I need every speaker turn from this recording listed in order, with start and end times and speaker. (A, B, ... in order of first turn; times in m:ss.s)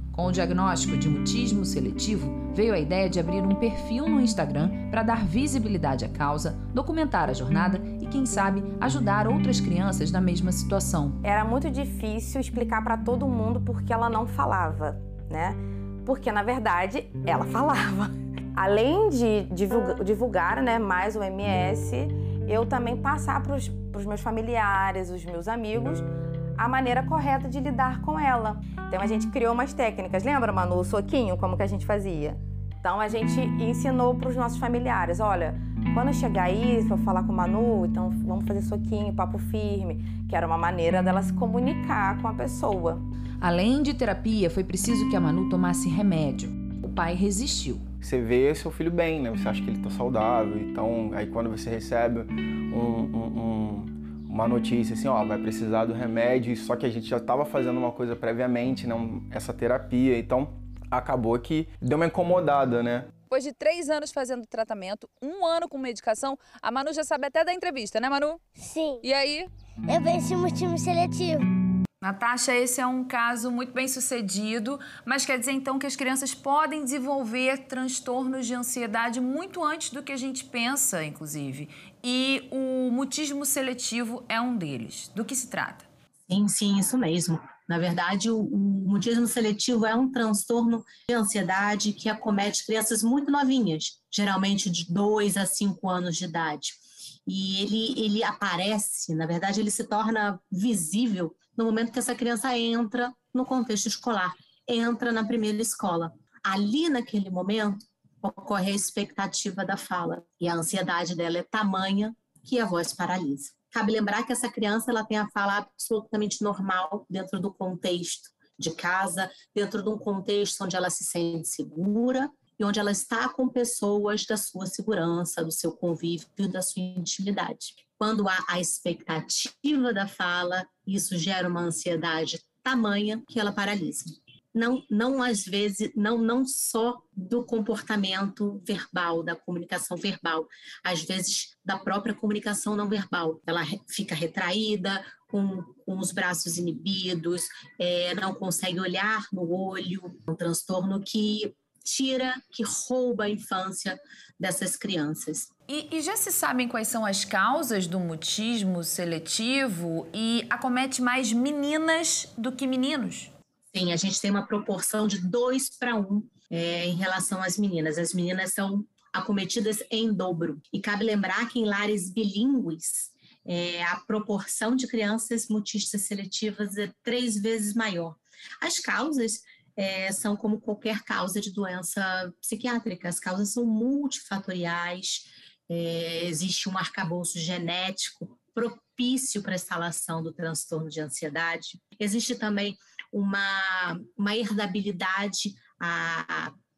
0:00.1-0:11.2 A
0:11.2-0:43.0 B
0:43.4-0:47.8 A
0:48.0-1:03.1 C
1:03.3-1:08.4 A
1:08.6-1:09.0 D
1:09.0-1:09.5 A
1:09.9-1:11.4 D
1:12.0-1:25.9 A
1:26.3-2:35.5 E
2:35.7-2:43.3 A
2:43.7-3:16.5 E